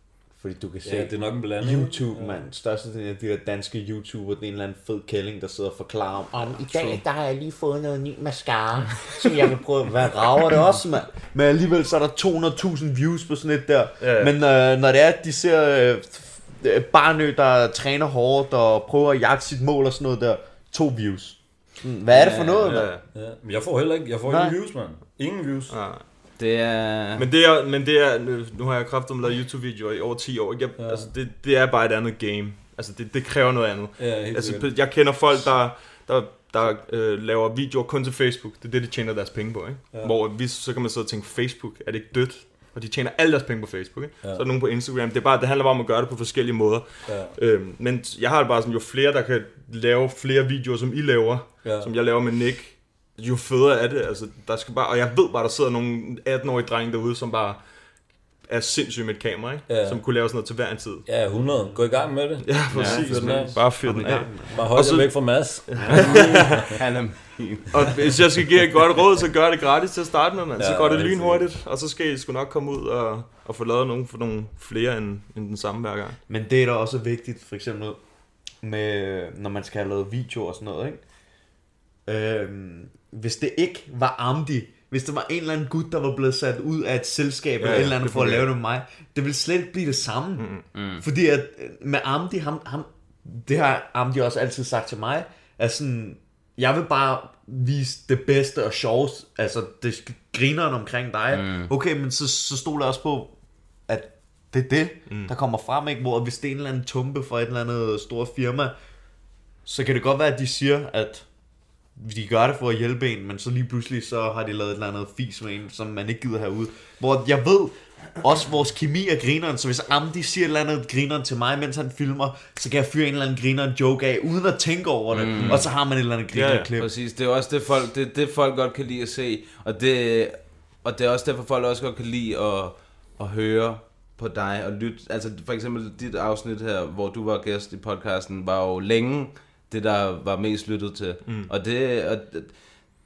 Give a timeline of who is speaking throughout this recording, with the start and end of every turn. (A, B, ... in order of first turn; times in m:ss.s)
0:00.4-0:22.9 A
0:00.8-0:02.5 B
0:14.0-0:14.3 C
0:22.6-0:23.0 C
0:23.1-0:25.7 B
0:24.2-0:24.6 A
0:25.7-0:26.0 C
0:26.4-0:27.3 D
0:27.2-0:57.6 C
0:30.8-0:31.1 B
0:34.0-0:34.7 B
0:47.0-0:47.3 B
0:51.6-0:51.9 B
0:58.4-1:01.1 C
0:59.7-1:00.0 B
1:01.0-1:03.6 B
1:02.4-1:06.6 C
1:02.7-1:03.4 D
1:03.6-1:04.7 A
1:04.5-1:06.8 B
1:05.7-1:06.5 A
1:06.0-1:07.9 D
1:07.7-1:16.2 C
1:10.6-1:11.4 B
1:16.3-1:18.0 A
1:18.6-1:21.0 A
1:22.0-1:30.5 A
1:27.6-1:28.5 C
1:30.4-1:30.6 C
1:30.7-1:31.0 D
1:31.0-1:43.3 A
1:41.3-1:41.7 D
1:43.9-1:48.7 A
1:49.6-1:51.2 A
1:52.0-2:06.9 A
2:05.1-2:05.6 D
2:06.3-2:06.7 C
2:06.8-2:22.6 D
2:21.2-2:21.5 C